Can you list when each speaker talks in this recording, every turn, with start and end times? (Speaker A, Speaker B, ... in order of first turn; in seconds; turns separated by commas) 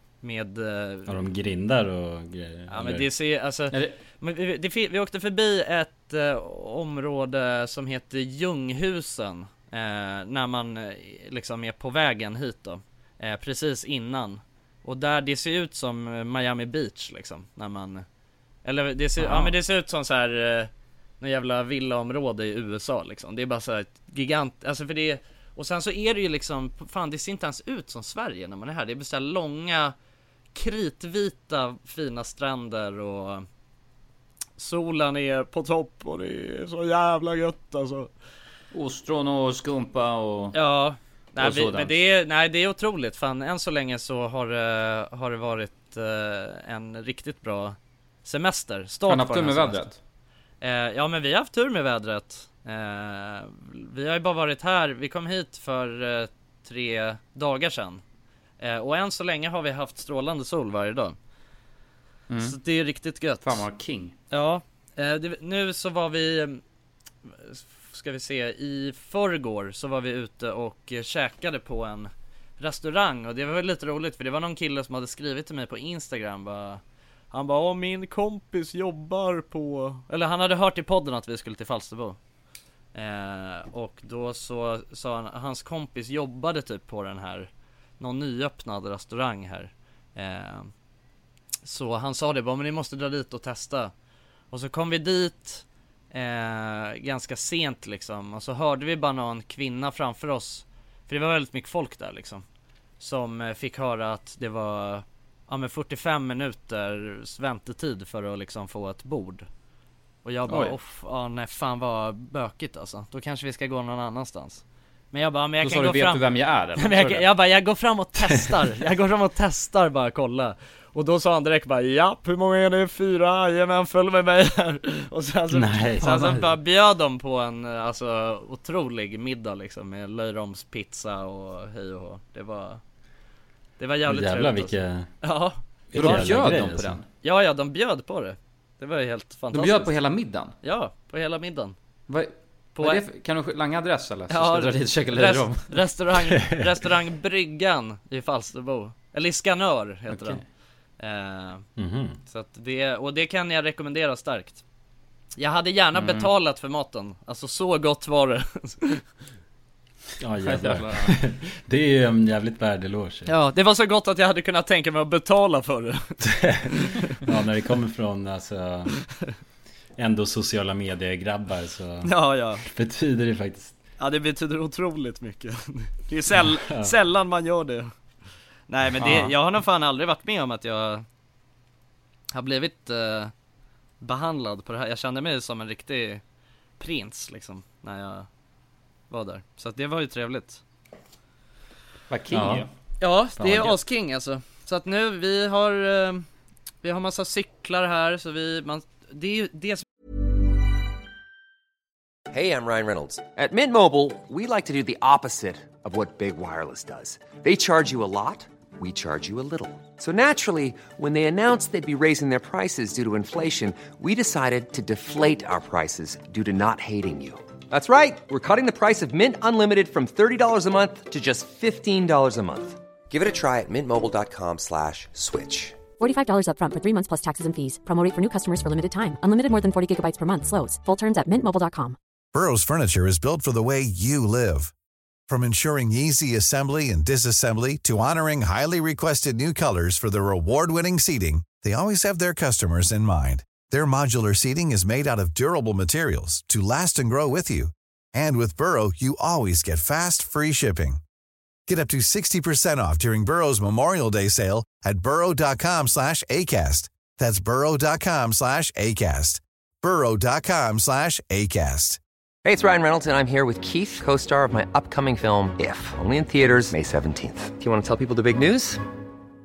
Speaker A: 0.2-1.2, Speaker B: 1.1-3.1, Speaker A: 2.7-18.1, Speaker A: 18.6-29.9, Speaker A: 30.5-33.5, Speaker A: 34.6-38.1, Speaker C: 38.7-40.6, Speaker A: 40.5-49.9, Speaker C: 41.4-42.0, Speaker C: 49.1-50.0, Speaker A: 50.6-58.0, Speaker A: 58.6-61.2, Speaker C: 62.3-62.6, Speaker A: 62.4-63.6, Speaker C: 63.4-64.1, Speaker A: 64.3-66.6, Speaker A: 67.3-76.8, Speaker A: 77.3-82.2, Speaker A: 82.9-90.7, Speaker A: 91.7-93.9, Speaker A: 94.5-102.5, Speaker A: 103.0-109.5, Speaker A: 110.2-116.2, Speaker C: 110.5-110.8, Speaker C: 115.6-117.3, Speaker A: 116.8-132.8, Speaker B: 125.5-126.5, Speaker A: 133.8-136.5, Speaker B: 134.1-135.1, Speaker B: 135.9-137.0, Speaker C: 135.9-137.1, Speaker A: 137.2-139.9, Speaker C: 139.5-140.6, Speaker A: 140.6-141.8, Speaker C: 142.1-145.7, Speaker A: 142.8-143.0, Speaker A: 144.3-150.4, Speaker B: 146.4-146.6, Speaker A: 151.0-151.7, Speaker B: 151.8-152.2, Speaker A: 152.3-154.6, Speaker A: 155.4-159.1, Speaker B: 160.2-163.3, Speaker C: 160.5-161.1, Speaker A: 163.3-167.1, Speaker B: 166.3-168.9, Speaker B: 170.0-172.1, Speaker A: 172.0-172.7, Speaker B: 172.7-173.7, Speaker A: 174.0-177.9, Speaker B: 176.5-176.9, Speaker A: 178.7-181.1, Speaker C: 179.0-179.3, Speaker A: 182.3-183.3, Speaker A: 184.0-186.2, Speaker A: 186.8-188.3, Speaker A: 189.1-190.6, Speaker C: 192.1-192.7, Speaker B: 192.3-192.7, Speaker A: 193.0-196.3, Speaker B: 193.4-193.8, Speaker A: 196.8-199.8, Speaker D: 202.3-225.8, Speaker E: 226.0-232.0, Speaker F: 232.3-234.7, Speaker F: 235.3-251.0, Speaker F: 251.7-262.0, Speaker D: 262.4-268.8